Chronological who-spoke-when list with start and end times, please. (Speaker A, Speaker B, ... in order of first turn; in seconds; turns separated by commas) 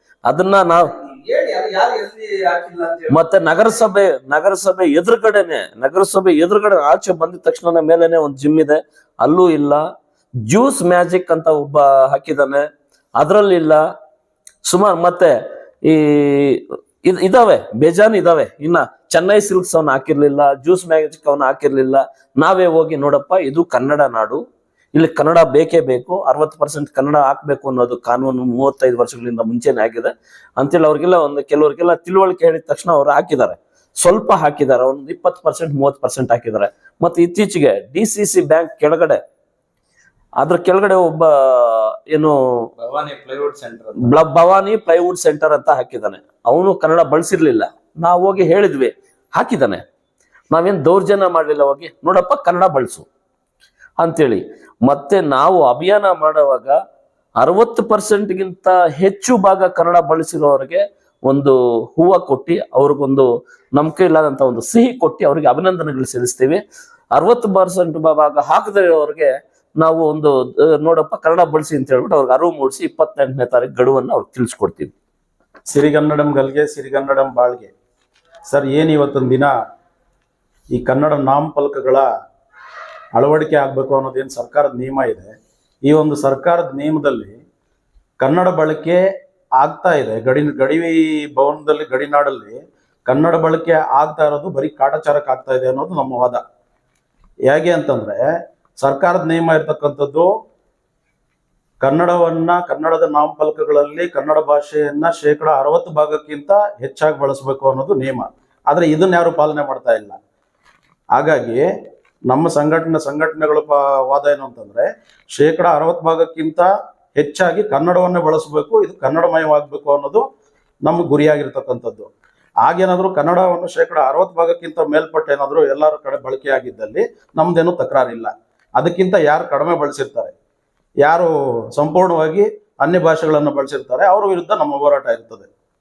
Speaker A: 0.3-0.9, Speaker B: 1.0-3.1, Speaker A: 3.1-9.8, Speaker A: 10.4-12.6, Speaker A: 13.2-13.8, Speaker A: 14.7-24.4, Speaker A: 24.9-39.2, Speaker A: 40.4-42.7, Speaker B: 42.8-44.1, Speaker A: 44.0-49.8, Speaker A: 50.5-53.1, Speaker A: 54.0-56.8, Speaker A: 57.4-66.6, Speaker A: 67.1-74.9, Speaker C: 75.7-77.7, Speaker C: 78.5-79.5, Speaker C: 80.7-82.1, Speaker C: 83.2-85.3, Speaker C: 85.9-87.4, Speaker C: 88.2-89.0, Speaker C: 89.6-96.4, Speaker C: 97.5-98.2, Speaker C: 98.8-100.3, Speaker C: 101.8-110.2, Speaker C: 111.1-111.6, Speaker C: 112.3-120.2, Speaker C: 120.8-122.1, Speaker C: 122.6-130.3, Speaker C: 131.0-135.5